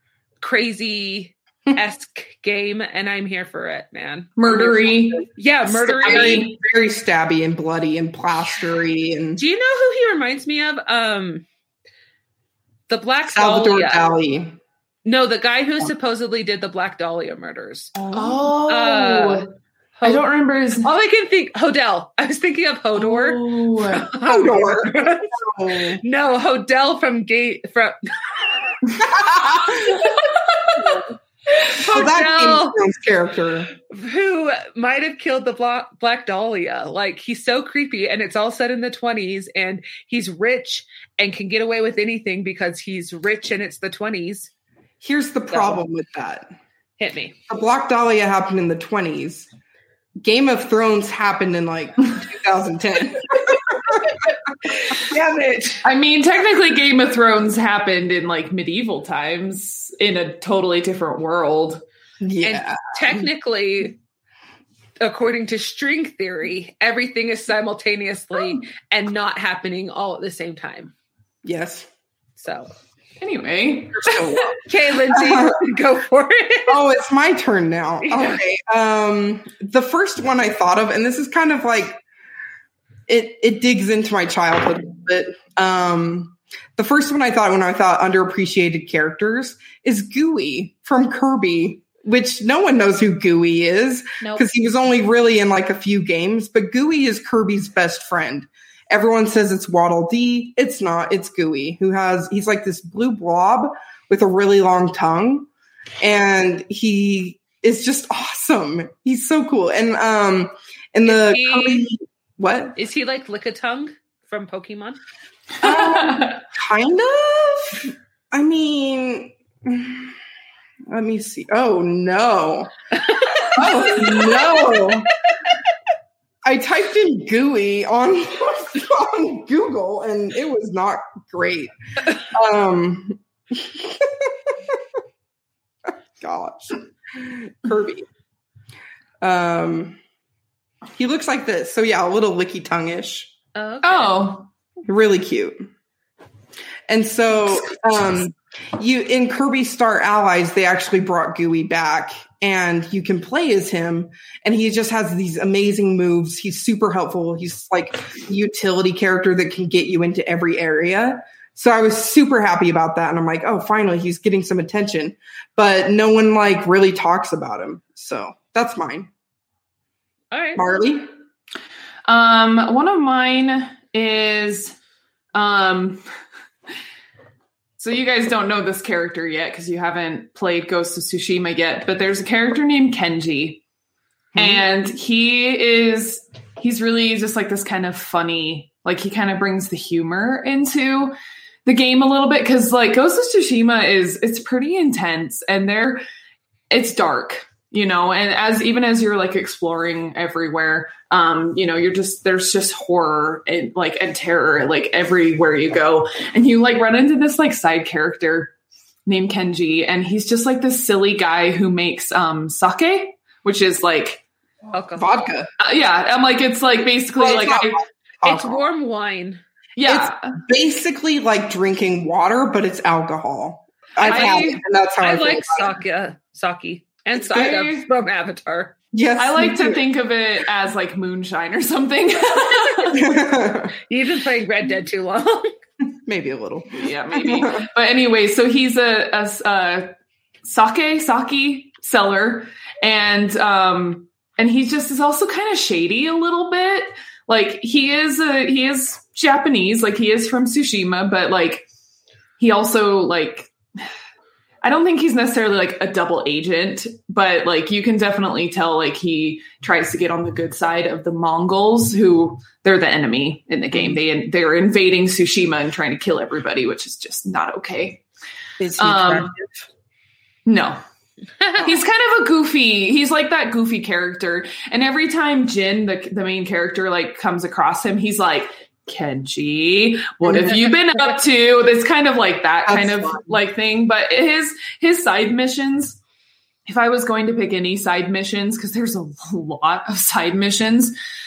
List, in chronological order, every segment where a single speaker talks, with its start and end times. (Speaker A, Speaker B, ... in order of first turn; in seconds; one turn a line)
Speaker A: 0.4-6.5
Speaker B: 4.4-6.5
Speaker C: 6.0-9.4
Speaker A: 9.4-11.4
Speaker A: 12.9-14.2
Speaker C: 13.3-14.6
Speaker A: 15.1-18.0
Speaker C: 17.9-18.6
Speaker B: 18.1-19.5
Speaker A: 18.6-19.5
Speaker A: 20.0-20.2
Speaker B: 20.0-20.9
Speaker A: 20.8-25.3
Speaker B: 22.9-24.1
Speaker C: 24.2-26.0
Speaker A: 26.0-28.0
Speaker C: 29.0-30.1
Speaker B: 30.1-30.8
Speaker A: 31.6-32.8
Speaker C: 31.8-33.7
Speaker A: 33.9-44.5
Speaker C: 45.0-46.5
Speaker A: 45.5-45.8
Speaker A: 47.0-47.4
Speaker C: 47.5-49.5
Speaker C: 50.2-54.2
Speaker C: 55.0-55.7
Speaker A: 55.1-55.7
Speaker B: 55.8-61.8
Speaker C: 62.2-63.3
Speaker A: 62.4-64.0
Speaker A: 65.0-70.9
Speaker C: 71.4-71.9
Speaker A: 72.4-72.7
Speaker B: 73.2-74.5
Speaker C: 74.0-74.6
Speaker A: 74.6-76.8
Speaker C: 75.1-75.6
Speaker C: 76.7-82.0
Speaker C: 83.1-105.5
Speaker C: 106.0-112.8
Speaker A: 111.1-111.9
Speaker A: 112.8-115.0
Speaker C: 115.6-120.2
Speaker B: 115.7-116.4
Speaker C: 120.9-122.7
Speaker A: 123.1-124.9
Speaker C: 123.5-125.1
Speaker C: 126.5-134.8
Speaker C: 136.2-138.1
Speaker C: 139.2-140.0
Speaker C: 141.0-143.3
Speaker A: 143.6-144.3
Speaker B: 143.8-144.5
Speaker C: 144.9-145.7
Speaker C: 146.9-169.1
Speaker A: 170.3-170.6
Speaker C: 170.6-171.1
Speaker B: 172.1-174.8
Speaker B: 175.3-176.0
Speaker B: 177.8-183.6
Speaker C: 184.3-184.6
Speaker B: 184.4-196.0
Speaker B: 196.7-208.6
Speaker B: 209.1-214.2
Speaker A: 214.7-215.1
Speaker C: 215.0-215.5
Speaker B: 215.6-217.8
Speaker C: 217.2-218.6
Speaker A: 218.2-219.4
Speaker B: 219.8-220.4
Speaker C: 219.9-225.8
Speaker B: 224.0-224.6
Speaker A: 224.0-228.8
Speaker B: 227.2-227.9
Speaker C: 228.9-229.8
Speaker B: 229.2-233.1
Speaker C: 232.9-233.7
Speaker A: 233.9-235.6
Speaker C: 236.1-237.7
Speaker B: 236.8-239.9
Speaker B: 240.4-251.7
Speaker B: 252.4-253.5
Speaker B: 254.6-268.0
Speaker C: 263.7-264.0
Speaker C: 268.6-269.5
Speaker B: 268.8-269.3
Speaker B: 270.5-270.8
Speaker B: 271.5-286.0
Speaker C: 280.2-280.6
Speaker C: 282.7-283.4
Speaker B: 286.7-290.9